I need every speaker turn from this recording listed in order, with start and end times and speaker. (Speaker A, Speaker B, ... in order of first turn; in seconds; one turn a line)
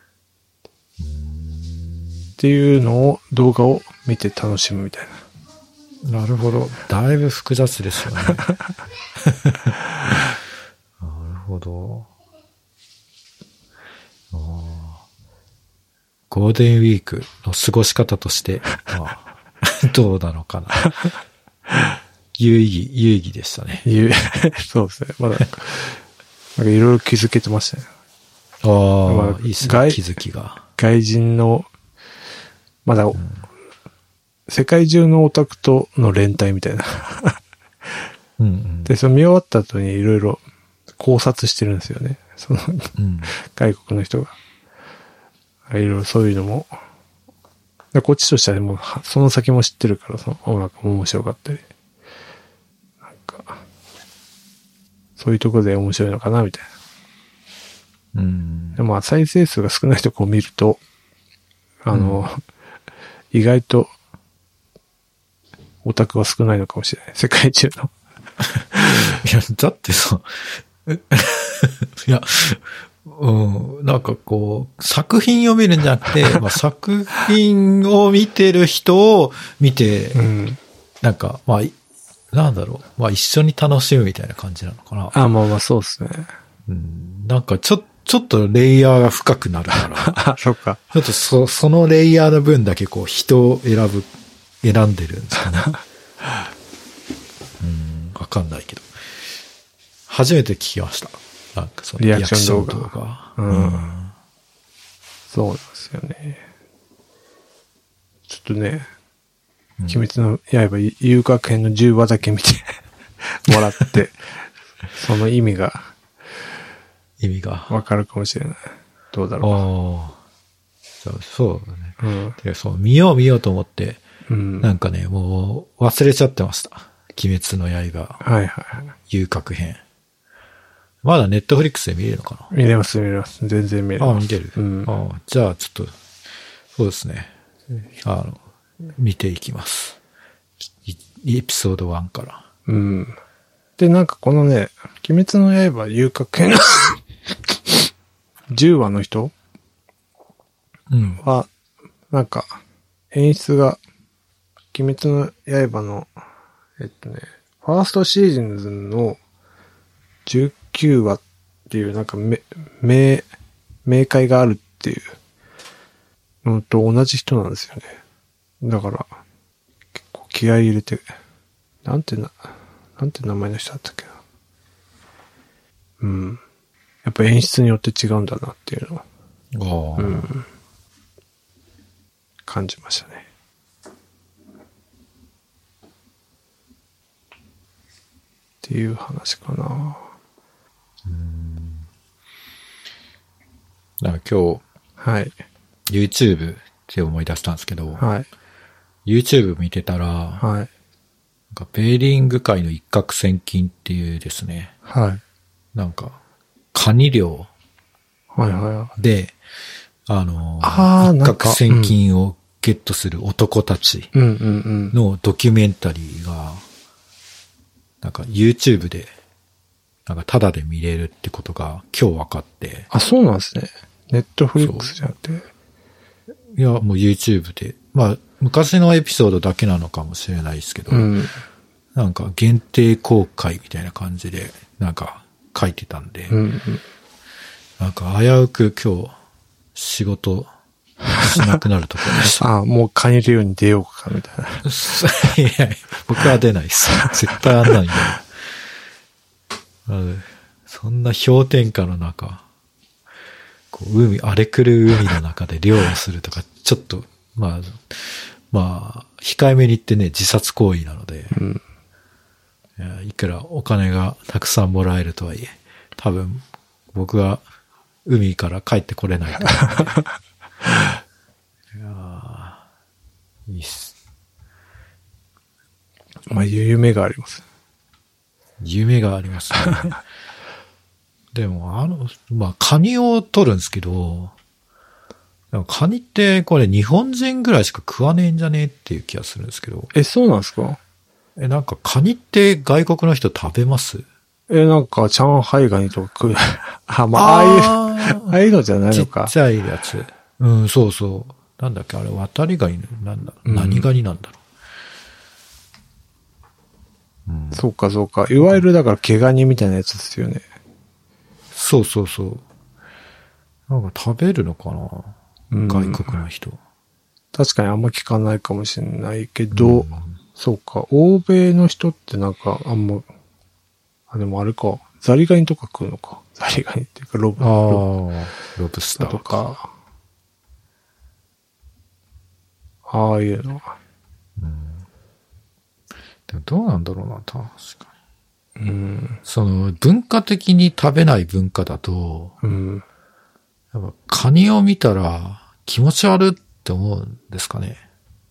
Speaker A: 1.0-2.3
Speaker B: 2.4-5.2
Speaker A: 6.0-8.5
Speaker A: 9.2-10.1
Speaker A: 11.0-12.1
Speaker A: 14.3-15.0
Speaker A: 16.3-20.9
Speaker A: 22.4-23.8
Speaker B: 23.8-26.0
Speaker B: 26.6-27.9
Speaker A: 28.6-30.6
Speaker B: 29.1-30.0
Speaker B: 30.8-31.7
Speaker B: 32.8-33.2
Speaker A: 33.1-33.4
Speaker B: 34.5-37.4
Speaker A: 38.4-38.9
Speaker B: 38.9-40.4
Speaker B: 41.0-44.3
Speaker A: 43.0-43.3
Speaker B: 45.7-46.7
Speaker B: 47.9-51.6
Speaker B: 53.0-53.6
Speaker B: 55.2-56.7
Speaker A: 58.1-58.8
Speaker B: 58.8-60.8
Speaker B: 61.8-62.4
Speaker A: 61.9-62.2
Speaker B: 63.3-63.9
Speaker B: 65.8-67.9
Speaker A: 69.1-80.2
Speaker B: 80.1-80.6
Speaker A: 81.0-81.7
Speaker A: 82.3-85.1
Speaker B: 85.1-86.3
Speaker A: 86.7-90.2
Speaker B: 90.0-90.8
Speaker A: 90.9-94.1
Speaker A: 94.6-95.7
Speaker A: 97.6-98.9
Speaker A: 100.1-104.1
Speaker B: 102.0-103.9
Speaker B: 105.3-106.4
Speaker B: 108.3-108.9
Speaker B: 109.9-114.2
Speaker B: 114.9-115.9
Speaker A: 117.2-117.7
Speaker B: 117.7-119.6
Speaker A: 119.4-120.2
Speaker A: 121.0-124.0
Speaker B: 122.0-122.4
Speaker B: 124.3-124.7
Speaker A: 124.6-128.2
Speaker B: 128.2-128.9
Speaker A: 129.1-129.8
Speaker A: 131.0-132.5
Speaker B: 132.5-134.9
Speaker A: 134.0-135.9
Speaker A: 136.7-137.3
Speaker A: 138.0-140.0
Speaker A: 140.8-142.4
Speaker B: 142.7-143.2
Speaker B: 143.8-147.0
Speaker B: 148.5-149.3
Speaker A: 150.9-151.2
Speaker B: 151.2-151.5
Speaker B: 152.1-152.6
Speaker B: 153.1-153.8
Speaker B: 154.7-156.1
Speaker B: 156.8-159.2
Speaker B: 160.3-163.2
Speaker B: 163.8-165.1
Speaker B: 166.4-168.0
Speaker B: 168.6-169.1
Speaker B: 170.0-171.1
Speaker B: 171.8-174.2
Speaker B: 176.0-176.4
Speaker B: 177.0-179.0
Speaker A: 179.5-180.3
Speaker B: 180.0-180.4
Speaker B: 182.4-183.2
Speaker B: 188.6-190.1
Speaker A: 191.0-191.8
Speaker A: 194.0-194.6
Speaker B: 195.0-195.3
Speaker A: 195.9-198.0
Speaker B: 198.0-198.3
Speaker A: 199.0-200.4
Speaker B: 200.4-200.7
Speaker A: 201.5-204.7
Speaker B: 204.9-205.2
Speaker A: 205.7-206.2
Speaker A: 206.7-207.5
Speaker B: 208.3-208.9
Speaker A: 209.0-209.3
Speaker A: 210.1-214.1
Speaker B: 210.6-211.9
Speaker B: 214.1-214.9
Speaker A: 214.9-216.6
Speaker A: 218.0-219.1
Speaker A: 220.1-222.9
Speaker B: 222.9-225.5
Speaker A: 224.6-224.9
Speaker A: 226.5-231.1
Speaker B: 230.9-231.4
Speaker A: 231.9-236.4
Speaker B: 236.3-236.8
Speaker A: 237.8-239.1
Speaker A: 239.7-240.5
Speaker A: 241.2-242.4
Speaker B: 242.1-244.7
Speaker A: 244.6-248.2
Speaker A: 249.8-252.4
Speaker A: 253.7-261.4
Speaker B: 261.3-261.6
Speaker A: 262.8-267.4
Speaker A: 268.0-269.9
Speaker B: 269.6-269.8
Speaker A: 271.7-272.6
Speaker A: 273.5-273.9
Speaker B: 276.3-277.4
Speaker A: 278.6-280.0
Speaker A: 281.3-284.3
Speaker A: 285.5-289.9
Speaker B: 289.9-290.8
Speaker A: 291.4-294.0
Speaker B: 294.5-299.3
Speaker A: 297.1-298.4
Speaker A: 298.9-304.4
Speaker B: 303.4-303.9
Speaker A: 307.3-307.7
Speaker B: 307.5-310.4
Speaker A: 311.5-312.4
Speaker A: 313.7-316.6
Speaker B: 315.5-316.2
Speaker B: 317.3-323.1
Speaker A: 319.5-320.1
Speaker B: 324.1-327.8
Speaker A: 327.4-329.4
Speaker B: 329.0-329.7
Speaker B: 332.9-333.7
Speaker A: 334.4-334.8
Speaker A: 336.3-337.8
Speaker B: 338.6-339.2
Speaker A: 339.2-342.3
Speaker B: 342.4-342.8
Speaker A: 343.7-347.8